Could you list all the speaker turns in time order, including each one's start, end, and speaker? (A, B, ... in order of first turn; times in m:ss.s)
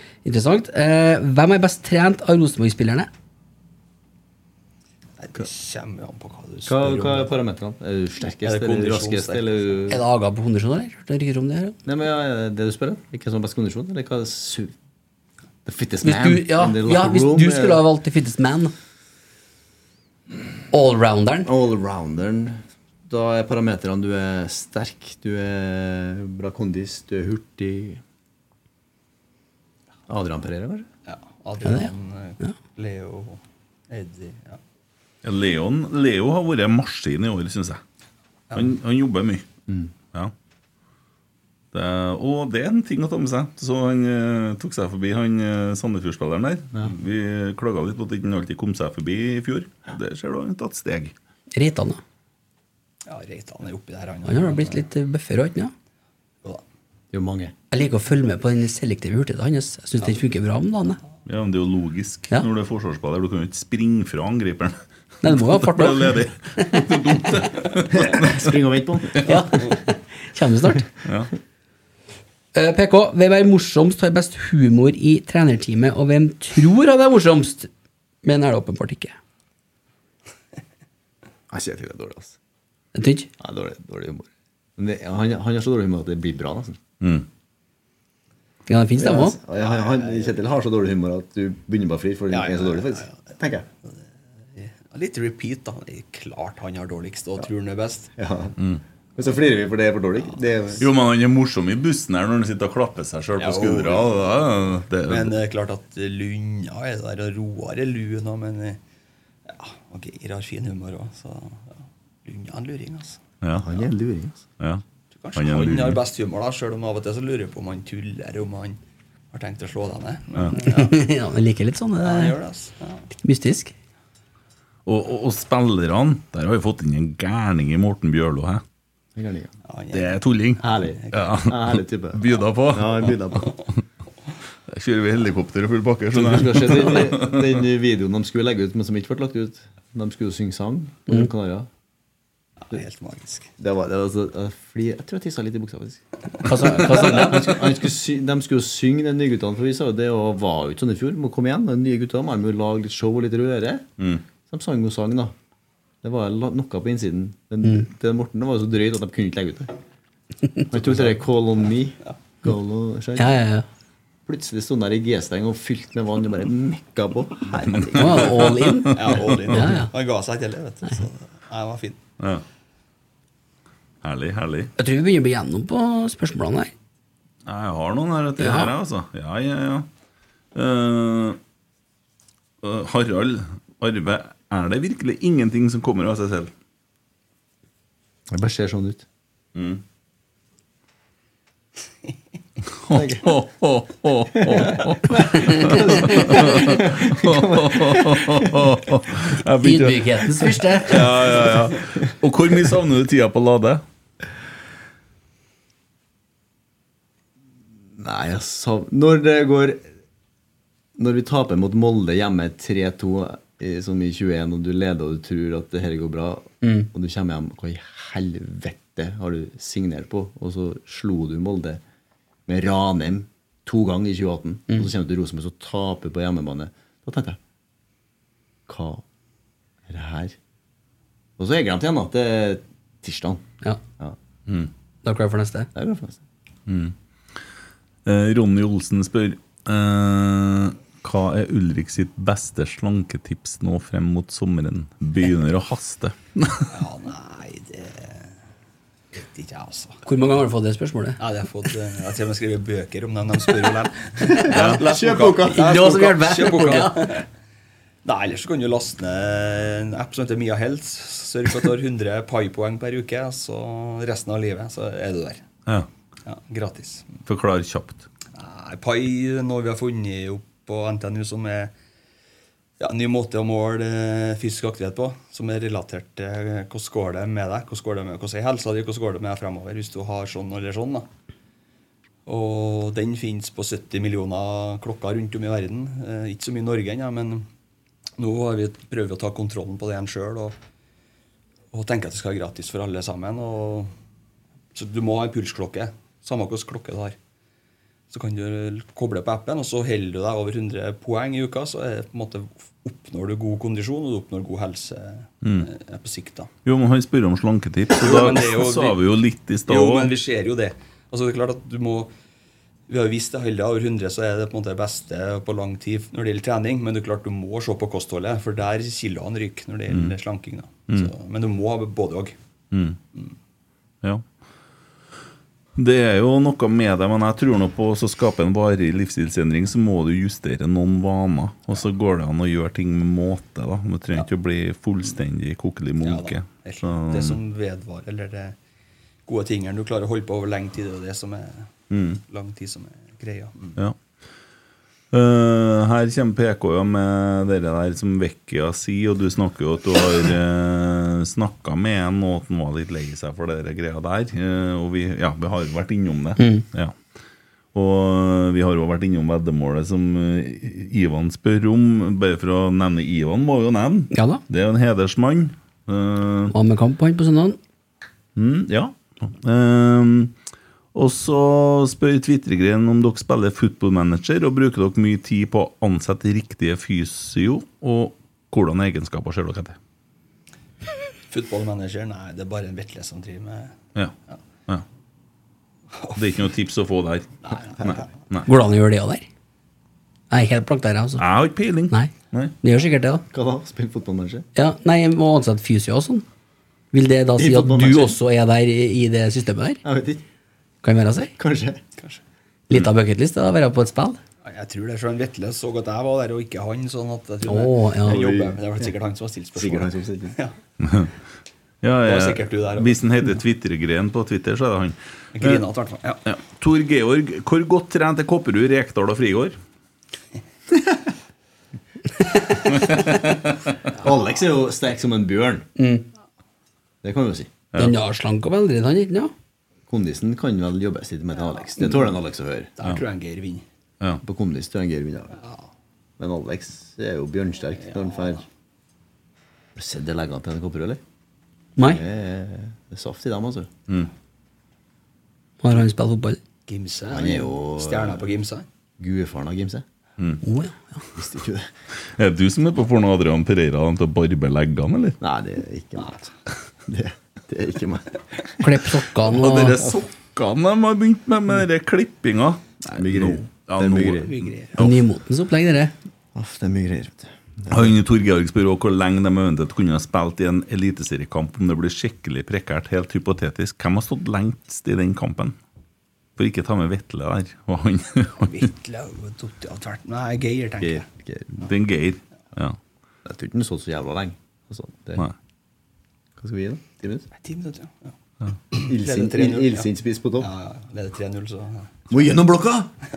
0:00.2-0:03.1 A
0:05.2-0:07.4 B
0:06.6-0:10.0 C
0:08.4-0:09.7 B
0:09.9-0:11.8 A
0:11.8-0:14.7 C
0:15.6-0:17.8 C
0:16.0-0:18.7 A
0:20.7-0:21.5 A
0:21.4-0:28.0 C
0:30.1-0:30.9 C
0:31.0-0:34.6 B
0:31.6-0:32.5 A
0:35.2-0:37.8 D
0:38.5-0:39.4 D
0:39.7-0:39.9 C
0:41.7-0:51.1 D
0:51.5-0:52.0 A
0:53.0-0:54.8 B
0:54.2-0:55.7 A
0:57.1-0:57.5 C
0:57.7-1:01.0 A
1:01.2-1:08.4 D
1:05.2-1:06.9 A
1:07.9-1:09.2 C
1:09.2-1:10.8 A
1:11.0-1:11.3 D
1:12.5-1:17.7 A
1:18.2-1:19.1 A
1:21.5-1:22.3 C
1:22.9-1:23.3 A
1:23.4-1:26.8 C
1:28.7-1:29.4 A
1:29.0-1:33.6 C
1:29.6-1:30.3 B
1:32.3-1:33.2 B
1:34.5-1:38.1 B
1:38.2-1:38.6 C
1:39.2-1:40.8 C
1:40.8-1:45.3 D
1:43.4-1:44.3 B
1:45.1-1:48.8 B
1:49.4-1:53.2 B
1:53.4-1:53.7 D
1:53.6-1:54.4 C
1:55.2-1:58.8 B
1:55.3-1:56.0 D
1:59.3-2:01.0 B
2:00.5-2:02.3 A
2:02.0-2:03.0 B
2:03.2-2:03.7 A
2:04.8-2:08.6 D
2:09.1-2:09.5 C
2:09.7-2:10.2 B
2:09.9-2:13.2 D
2:10.6-2:13.5 C
2:10.8-2:11.4 B
2:14.7-2:17.5 D
2:16.1-2:21.7 C
2:22.6-2:23.5 B
2:23.6-2:26.0 C
2:26.4-2:27.5 A
2:26.7-2:33.9 C
2:34.4-2:35.3 C
2:36.0-2:39.8 C
2:40.7-2:43.4 C
2:40.8-2:41.1 B
2:43.2-2:43.6 A
2:44.2-2:48.5 C
2:47.9-2:49.0 A
2:48.4-2:49.2 D
2:49.0-2:52.0 B
2:49.5-2:49.9 A
2:54.0-2:54.7 D
2:54.8-2:56.7 A
2:57.4-2:59.9 D
2:58.4-2:58.7 A
3:00.5-3:01.4 D
3:02.6-3:06.5 D
3:08.3-3:09.0 C
3:09.5-3:09.8 D
3:12.8-3:23.8 D
3:12.9-3:13.3 C
3:14.4-3:18.6 C
3:15.2-3:16.2 A
3:19.6-3:21.1 A
3:28.0-3:29.8 C
3:31.0-3:41.8 C
3:36.6-3:36.9 A
3:42.4-3:47.4 C
3:48.7-3:49.0 C
3:49.9-3:50.4 C
3:51.4-3:53.4 C
3:55.0-3:55.7 A
3:55.7-3:56.2 C
3:56.7-3:56.9 D
3:58.0-4:06.7 D
4:06.7-4:08.4 B
4:09.1-4:10.0 B
4:10.0-4:11.2 A
4:11.2-4:17.2 B
4:14.4-4:16.8 C
4:14.5-4:14.8 D
4:15.5-4:17.1 A
4:18.0-4:25.4 B
4:26.2-4:27.0 B
4:27.2-4:28.0 D
4:28.3-4:31.7 B
4:32.8-4:41.1 B
4:42.2-4:47.5 B
4:48.2-4:50.6 B
4:51.7-4:53.9 B
4:54.7-4:57.2 B
4:58.1-5:06.5 B
5:05.4-5:05.7 D
5:06.6-5:10.1 D
5:07.9-5:09.0 B
5:09.7-5:12.1 B
5:12.9-5:22.4 B
5:22.7-5:23.0 D
5:25.8-5:37.4 D
5:36.0-5:38.6 B
5:39.2-5:41.7 B
5:41.9-5:42.2 D
5:42.3-5:43.7 B
5:45.1-5:56.9 D
5:56.4-5:56.6 A
5:57.7-6:06.5 D
6:04.1-6:04.4 A
6:06.5-6:07.6 A
6:08.4-6:10.3 D
6:10.9-6:19.8 D
6:21.3-6:23.8 B
6:25.9-6:26.2 B
6:26.2-6:28.5 D
6:27.4-6:28.0 B
6:28.4-6:29.3 A
6:30.3-6:31.2 A
6:31.2-6:32.5 D
6:31.9-6:33.2 A
6:33.3-6:34.4 C
6:34.6-6:36.2 A
6:36.9-6:39.8 A
6:37.4-6:38.2 C
6:39.8-6:40.2 C
6:40.8-6:41.3 A
6:41.4-6:41.8 C
6:42.7-6:44.2 A
6:44.4-6:50.5 B
6:47.4-6:48.2 A
6:48.1-6:48.9 C
6:49.5-6:50.4 C
6:50.8-6:51.1 D
6:51.8-6:55.6 D
6:52.0-6:53.0 B
6:55.3-6:56.2 B
6:56.2-6:59.6 D
7:02.7-7:03.4 D
7:04.0-7:05.6 C
7:05.8-7:06.0 A
7:07.0-7:07.6 C
7:07.8-7:09.3 A
7:09.9-7:12.7 C
7:12.8-7:13.6 B
7:14.2-7:15.4 C
7:16.2-7:18.4 C
7:17.9-7:18.4 B
7:19.7-7:21.0 C
7:21.8-7:22.0 A
7:21.8-7:23.7 C
7:25.6-7:26.4 A
7:26.7-7:28.7 B
7:27.1-7:28.2 C
7:29.0-7:29.8 C
7:30.4-7:31.0 A
7:31.2-7:31.7 C
7:32.2-7:35.2 D
7:35.2-7:36.3 C
7:36.8-7:38.1 C
7:38.6-7:39.8 A
7:39.2-7:45.0 D
7:42.9-7:44.3 C
7:44.2-7:44.7 B
7:44.8-7:45.9 A
7:46.3-7:48.0 C
7:47.7-7:55.6 D
7:56.4-7:58.6 D
7:58.4-8:01.0 B
8:00.8-8:01.6 C
8:01.6-8:02.8 D
8:03.2-8:05.2 C
8:06.4-8:07.3 C
8:07.4-8:08.1 B
8:08.7-8:12.0 B
8:08.8-8:10.5 C
8:12.1-8:12.9 C